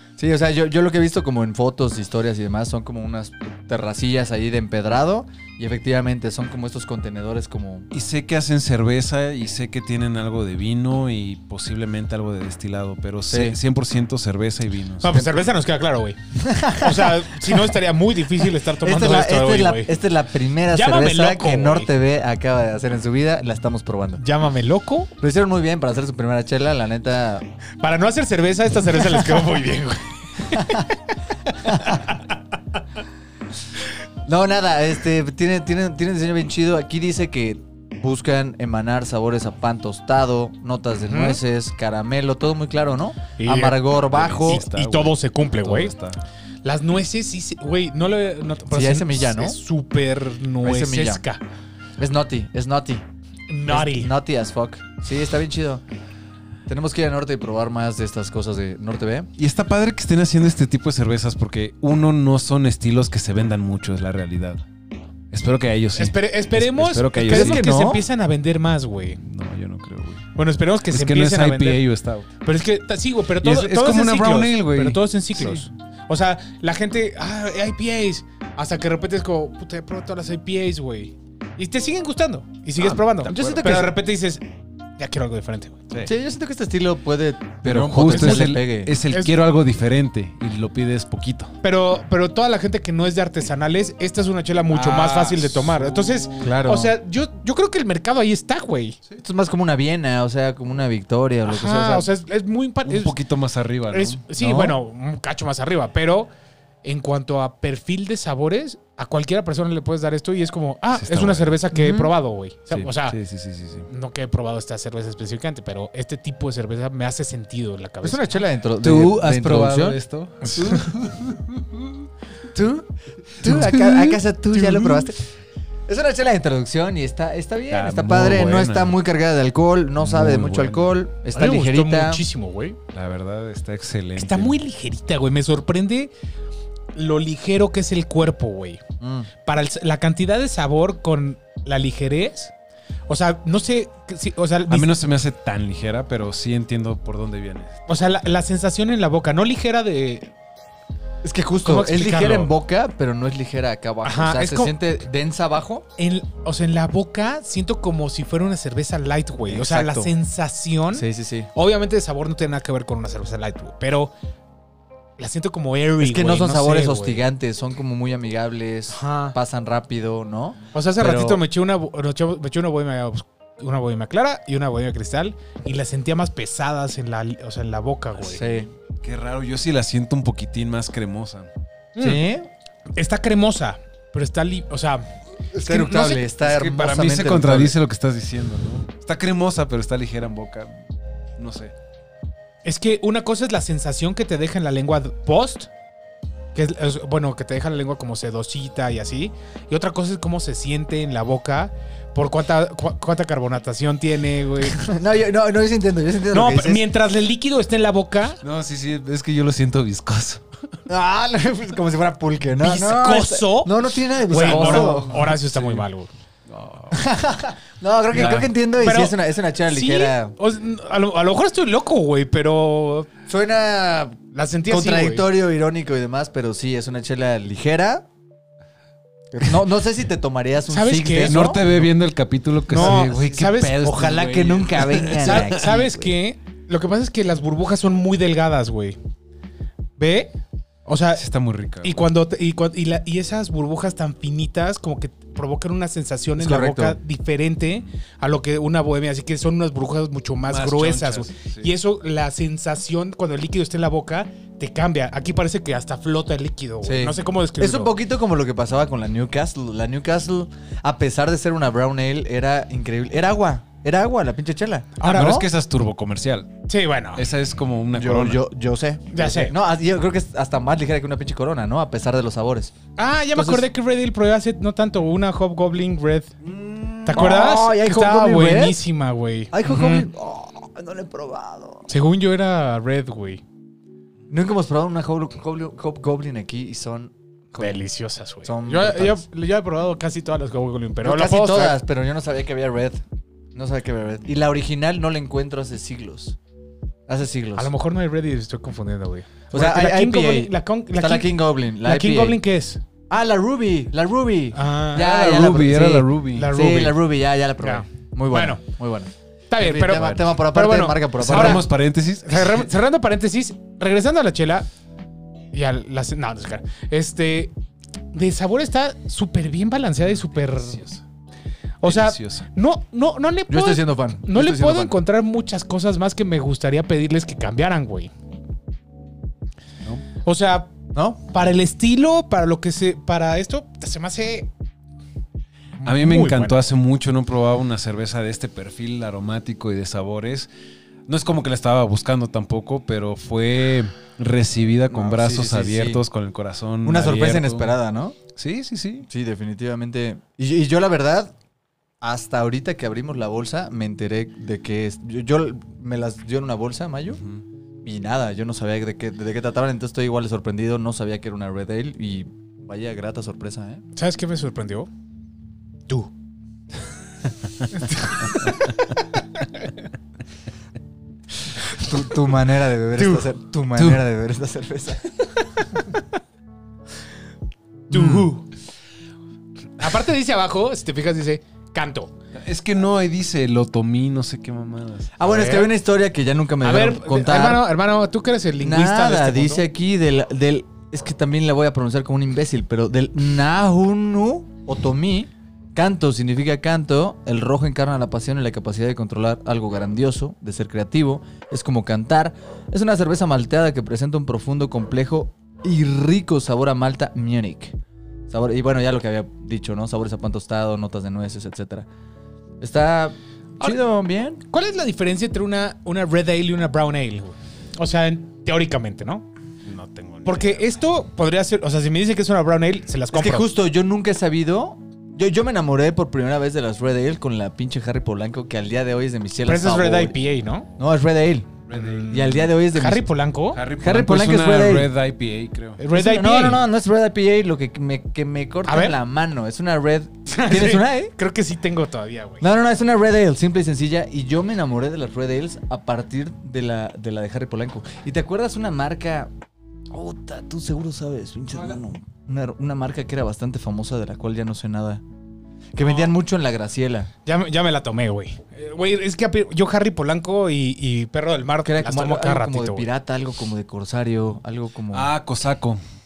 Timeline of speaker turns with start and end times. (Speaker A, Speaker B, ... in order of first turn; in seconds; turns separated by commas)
Speaker A: 0.2-7.9, Speaker B: 7.9-15.3, Speaker A: 13.3-13.6, Speaker C: 15.0-19.9, Speaker A: 16.3-17.7, Speaker A: 18.8-24.2, Speaker C: 20.7-21.9, Speaker C: 24.2-25.1, Speaker A: 25.2-27.5, Speaker C: 27.8-32.2, Speaker A: 30.5-30.9, Speaker A: 31.6-32.0, Speaker A: 34.2-44.6, Speaker C: 41.0-41.4, Speaker C: 43.4-45.9, Speaker B: 44.0-46.2, Speaker C: 46.6-51.4, Speaker A: 48.7-49.6, Speaker A: 50.6-51.2, Speaker A: 52.0-53.0, Speaker C: 53.5-54.1, Speaker A: 53.6-55.8, Speaker A: 56.7-59.3, Speaker B: 59.4-64.6, Speaker B: 65.3-67.6, Speaker C: 66.0-69.2, Speaker A: 67.3-68.0, Speaker B: 69.2-70.2, Speaker C: 70.3-71.8, Speaker B: 70.9-72.3, Speaker C: 72.4-84.4, Speaker B: 73.4-75.7, Speaker A: 82.8-83.9, Speaker B: 82.9-83.8, Speaker C: 85.0-85.9, Speaker A: 86.0-88.9, Speaker B: 87.6-91.5, Speaker C: 88.1-88.5, Speaker C: 89.1-89.3, Speaker C: 91.6-99.0, Speaker B: 94.7-96.5, Speaker A: 96.4-96.9, Speaker A: 99.2-102.1, Speaker C: 101.5-103.2, Speaker B: 102.8-104.2, Speaker C: 103.9-106.3, Speaker A: 104.3-104.7, Speaker C: 106.8-113.2, Speaker B: 110.9-111.6, Speaker A: 111.7-112.1, Speaker B: 112.7-113.9, Speaker C: 113.9-118.3, Speaker A: 118.0-120.0, Speaker B: 118.8-122.1, Speaker A: 122.5-125.2, Speaker B: 123.3-125.0, Speaker A: 125.9-132.2, Speaker B: 127.7-129.0, Speaker B: 130.0-131.0, Speaker C: 131.3-132.8, Speaker B: 132.9-134.6, Speaker C: 134.2-136.1, Speaker C: 136.9-138.8, Speaker A: 139.0-139.3, Speaker C: 139.4-142.5, Speaker C: 143.1-144.9, Speaker B: 144.7-147.9, Speaker C: 147.9-150.3, Speaker A: 151.2-155.8, Speaker C: 151.6-152.5, Speaker C: 154.0-154.8, Speaker C: 156.0-164.1, Speaker A: 159.5-160.1, Speaker A: 160.9-161.5, Speaker C: 165.2-167.2, Speaker A: 166.0-171.4, Speaker C: 168.9-169.3, Speaker C: 170.7-178.4, Speaker A: 178.2-178.7, Speaker B: 179.0-181.5, Speaker C: 181.9-182.2, Speaker A: 182.0-182.5, Speaker C: 182.9-185.0, Speaker A: 185.5-187.7, Speaker C: 185.7-186.3, Speaker B: 186.4-190.8, Speaker B: 191.4-191.7, Speaker C: 192.6-195.7, Speaker C: 196.5-204.9, Speaker A: 204.7-206.8, Speaker C: 206.3-208.4, Speaker B: 208.4-210.4, Speaker A: 210.9-215.3, Speaker C: 212.6-216.1, Speaker B: 214.4-215.8, Speaker B: 216.5-217.0, Speaker A: 216.9-220.3, Speaker B: 218.1-218.5, Speaker C: 218.8-223.1, Speaker A: 223.3-228.1, Speaker C: 224.3-225.2, Speaker A: 229.3-231.7, Speaker C: 230.7-231.4, Speaker B: 231.2-235.6, Speaker C: 232.7-233.8, Speaker A: 232.7-236.1, Speaker C: 235.1-239.0, Speaker C: 240.0-240.3, Speaker C: 240.8-241.2, Speaker B: 241.2-242.0, Speaker C: 241.8-257.9, Speaker A: 246.4-247.0, Speaker B: 250.5-251.7, Speaker A: 256.8-265.4, Speaker C: 265.0-265.4, Speaker B: 265.0-266.5, Speaker C: 266.7-267.2, Speaker B: 267.1-268.4, Speaker A: 267.9-272.7, Speaker C: 269.1-269.5, Speaker C: 273.0-276.3, Speaker A: 273.3-273.6, Speaker A: 276.4-278.8, Speaker C: 277.1-280.1, Speaker A: 279.5-281.9, Speaker C: 281.9-283.4, Speaker A: 284.3-287.8, Speaker C: 287.6-291.8, Speaker A: 288.4-289.2, Speaker A: 291.0-293.0, Speaker A: 293.5-296.4, Speaker A: 297.1-297.7, Speaker C: 297.6-302.8, Speaker A: 299.5-302.4, Speaker A: 303.1-311.6, Speaker C: 304.5-305.1, Speaker B: 304.9-306.5, Speaker C: 306.3-307.0, Speaker C: 307.6-308.6, Speaker C: 309.5-311.7, Speaker B: 311.2-312.6, Speaker C: 312.2-314.7, Speaker C: 315.5-317.5, Speaker C: 318.1-320.9, Speaker B: 320.5-321.0, Speaker C: 321.8-328.1, Speaker B: 321.8-322.5, Speaker A: 323.5-324.9, Speaker C: 330.2-330.7, Speaker A: 330.9-331.2, Speaker C: 331.3-334.5, Speaker C: 335.8-336.6, Speaker B: 335.8-340.5, Speaker B: 341.1-347.8, Speaker A: 344.9-346.0, Speaker A: 346.8-348.2, Speaker B: 348.3-349.1, Speaker A: 349.1-351.3, Speaker A: 352.0-357.2, Speaker B: 357.2-357.4, Speaker A: 357.8-363.8, Speaker C: 363.9-364.9, Speaker C: 367.8-368.5, Speaker A: 371.7-375.3, Speaker A: 377.9-378.3, Speaker C: 377.9-378.4, Speaker C: 379.8-382.1, Speaker B: 382.3-385.1, Speaker A: 385.2-387.6, Speaker C: 385.2-385.7, Speaker C: 386.6-389.6, Speaker A: 388.6-407.8, Speaker A: 408.3-411.9, Speaker A: 412.6-414.4, Speaker C: 414.5-419.3, Speaker B: 419.6-420.8, Speaker C: 420.2-423.4, Speaker A: 423.1-430.2, Speaker C: 429.4-430.7, Speaker A: 430.8-431.5, Speaker B: 431.7-432.4, Speaker C: 431.7-433.6, Speaker A: 432.1-433.1, Speaker B: 433.5-435.8, Speaker A: 433.8-434.9, Speaker C: 435.8-436.6, Speaker A: 435.9-441.1, Speaker C: 438.7-439.0, Speaker C: 440.3-442.4, Speaker A: 442.4-449.3, Speaker A: 449.9-455.0, Speaker A: 455.7-457.1, Speaker C: 455.8-456.1, Speaker C: 457.2-462.9, Speaker A: 461.6-465.1, Speaker B: 464.9-465.8